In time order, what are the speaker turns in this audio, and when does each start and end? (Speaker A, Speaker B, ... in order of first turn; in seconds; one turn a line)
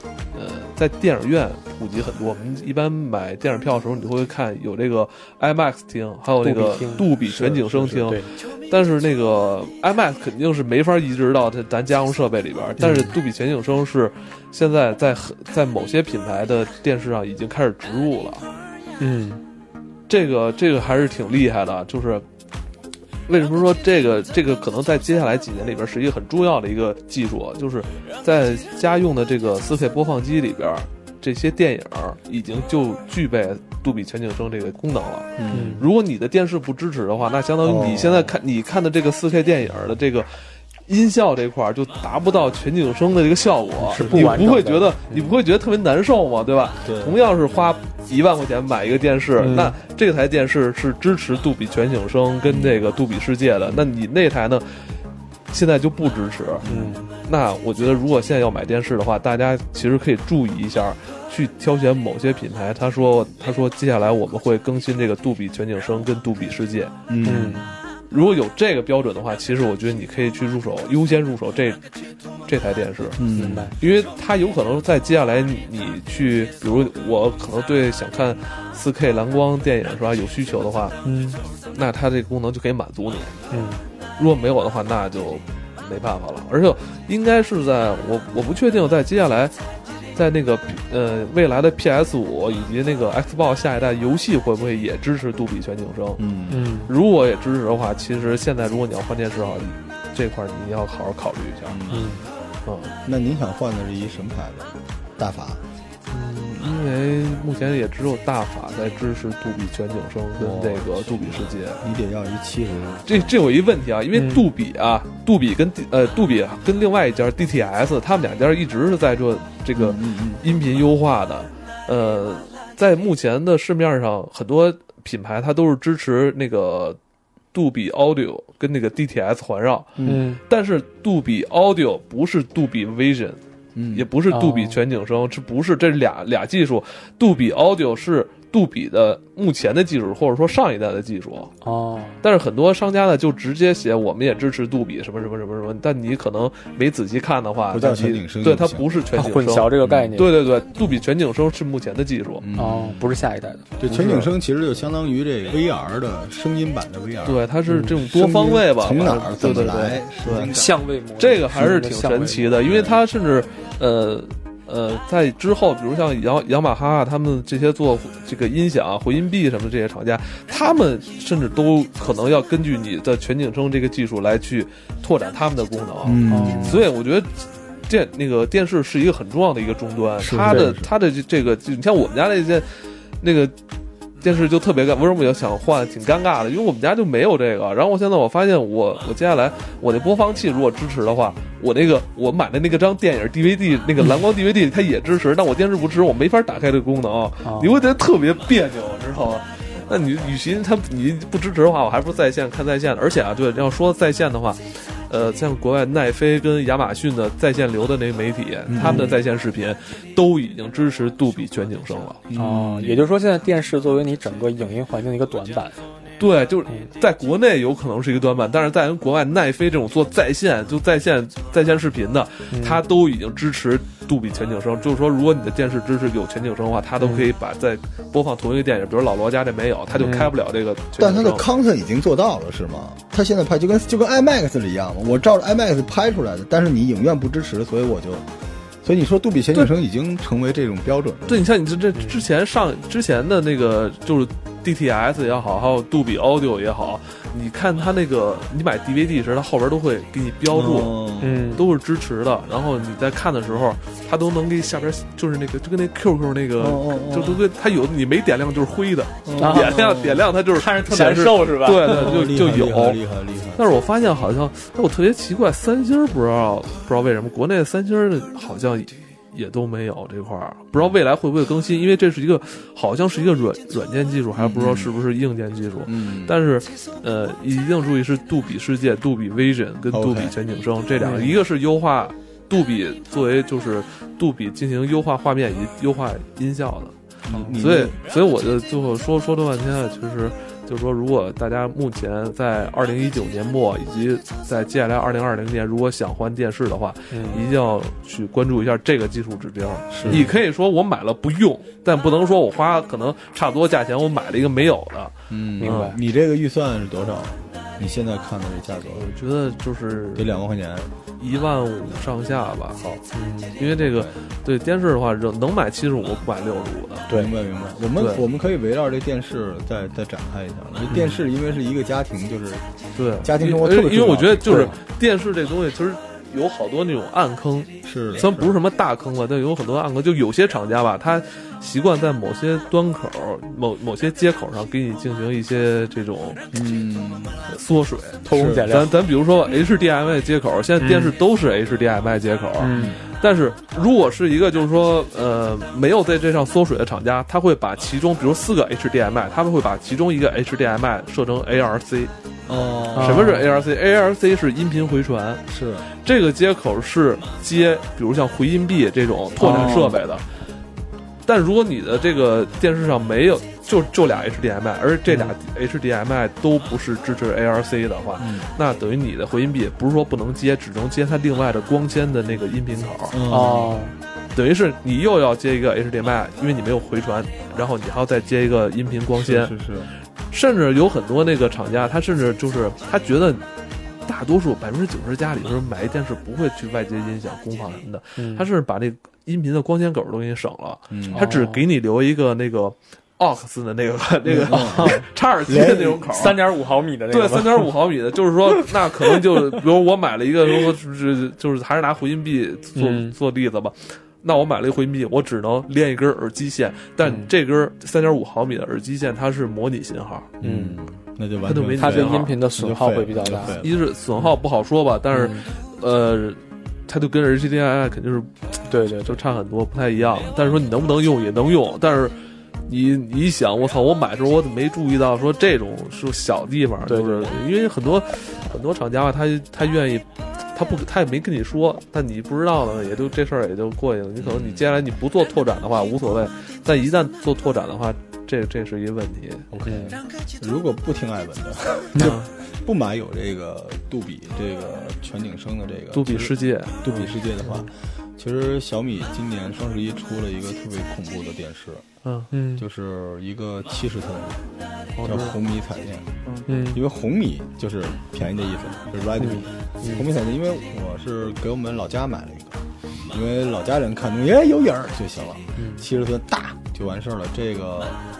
Speaker A: 0.3-18.4
Speaker B: 6.4-7.1
Speaker C: 7.2-8.1
Speaker B: 8.0-8.3
Speaker B: 12.8-13.2
Speaker B: 19.0-19.4
Speaker A: 20.1-22.2
Speaker A: 23.3-40.3
Speaker C: 35.4-35.9
Speaker B: 35.5-35.8
Speaker C: 37.6-38.4
Speaker A: 40.9-54.7
Speaker B: 43.8-45.3
Speaker C: 44.0-44.3
Speaker C: 46.8-47.2
Speaker B: 49.4-49.7
Speaker C: 52.5-52.9
Speaker A: 55.5-67.0
Speaker C: 56.6-57.0
Speaker B: 56.6-57.1
Speaker C: 67.1-67.7
Speaker B: 67.2-67.7
Speaker A: 68.1-71.8
Speaker A: 72.5-73.2
Speaker C: 73.2-73.7
Speaker B: 73.3-73.7
Speaker A: 73.8-81.0
Speaker B: 81.0-81.4
Speaker A: 81.7-83.4
Speaker B: 83.5-83.8
Speaker A: 84.2-89.5
Speaker A: 90.1-96.2
Speaker C: 96.2-96.7
Speaker B: 96.5-96.9
Speaker A: 96.9-101.8
Speaker C: 101.7-102.2
Speaker B: 101.9-102.2
Speaker A: 102.6-102.9
Speaker C: 103.0-105.6
Speaker A: 106.1-111.8
Speaker C: 110.4-113.3
Speaker A: 113.0-127.0
Speaker B: 114.1-114.5
Speaker C: 119.7-120.4
Speaker A: 127.5-133.4
Speaker C: 130.0-130.2
Speaker B: 130.0-130.4
Speaker C: 133.7-134.1
Speaker A: 133.9-141.5
Speaker B: 134.3-134.8
Speaker B: 141.6-142.2
Speaker A: 142.2-152.4
Speaker C: 147.7-148.8
Speaker B: 149.1-150.4
Speaker C: 149.8-150.2
Speaker C: 152.4-153.2
Speaker B: 152.6-153.7
Speaker C: 153.8-160.7
Speaker A: 153.8-154.3
Speaker A: 157.2-160.5
Speaker B: 157.7-157.9
Speaker B: 160.3-162.6
Speaker A: 161.2-182.7
Speaker C: 162.6-163.0
Speaker C: 176.0-176.8
Speaker B: 176.3-176.8
Speaker C: 180.2-180.9
Speaker A: 183.2-183.5
Speaker A: 184.2-212.2
Speaker B: 197.4-197.8
Speaker C: 208.7-209.2
Speaker B: 208.8-209.1
Speaker C: 212.3-213.0
Speaker B: 212.3-215.8
Speaker A: 216.2-231.4
Speaker B: 222.5-222.8
Speaker B: 227.0-227.3
Speaker B: 230.0-230.3
Speaker C: 231.0-238.2
Speaker C: 238.8-241.4
Speaker A: 241.3-250.9
Speaker B: 241.9-242.2
Speaker C: 250.5-251.6
Speaker B: 251.2-251.7
Speaker A: 251.5-263.0
Speaker C: 256.6-257.4
Speaker C: 259.2-260.2
Speaker B: 259.4-259.9
Speaker B: 260.5-262.2
Speaker C: 261.8-263.7
Speaker A: 263.5-286.9
Speaker C: 274.4-274.9
Speaker C: 275.8-276.4
Speaker C: 279.9-280.3
Speaker C: 281.0-281.3
Speaker B: 281.0-281.4
Speaker B: 287.3-287.5
Speaker C: 287.3-288.0
Speaker A: 287.5-305.9
Speaker B: 297.1-297.5
Speaker C: 299.9-300.3
Speaker C: 305.3-309.1
Speaker B: 305.6-306.0
Speaker A: 308.9-310.3
Speaker C: 310.1-310.9
Speaker A: 311.2-312.8
Speaker C: 312.8-313.0
Speaker B: 313.1-313.6
Speaker A: 313.6-317.1
Speaker C: 313.8-314.1
Speaker C: 317.1-322.7
Speaker A: 318.0-318.2
Speaker B: 320.9-321.2
Speaker A: 322.9-336.4
Speaker C: 323.2-324.7
Speaker B: 324.5-324.7
Speaker C: 327.8-328.5
Speaker C: 336.5-337.5
Speaker A: 337.5-352.1
Speaker B: 338.2-339.0
Speaker C: 338.3-338.7
Speaker B: 340.8-341.1
Speaker B: 342.6-342.9
Speaker C: 342.7-343.0
Speaker C: 352.5-353.4
Speaker B: 352.9-353.4
Speaker A: 352.9-360.2
Speaker C: 355.5-355.9
Speaker B: 359.4-360.0
Speaker C: 359.4-360.0
Speaker A: 361.2-373.2
Speaker B: 365.1-365.3
Speaker C: 368.2-368.5
Speaker C: 373.1-373.7
Speaker B: 373.3-373.9
Speaker A: 374.3-379.5
Speaker C: 379.1-379.9
Speaker A: 380.3-383.4
Speaker A: 384.1-396.4
Speaker B: 388.2-388.5
Speaker C: 390.9-391.3
Speaker B: 391.1-391.6
Speaker C: 394.2-396.3
Speaker B: 394.6-395.0
Speaker B: 396.1-397.7
Speaker A: 397.1-410.3
Speaker B: 402.8-403.1
Speaker B: 407.0-407.3
Speaker C: 410.4-413.8
Speaker B: 410.4-410.8
Speaker A: 411.4-412.3
Speaker B: 411.8-413.6
Speaker A: 413.4-422.1
Speaker B: 415.1-415.5
Speaker B: 418.7-419.2
Speaker A: 422.7-439.5
Speaker B: 426.8-427.4
Speaker C: 434.2-434.9
Speaker C: 439.5-451.8
Speaker B: 439.6-440.0
Speaker A: 441.9-442.3
Speaker A: 445.9-447.1
Speaker A: 452.0-452.3
Speaker B: 452.3-452.6
Speaker C: 452.6-454.4
Speaker A: 454.9-455.4
Speaker C: 455.0-468.0
Speaker B: 456.5-456.8
Speaker B: 459.2-460.1
Speaker B: 465.6-465.8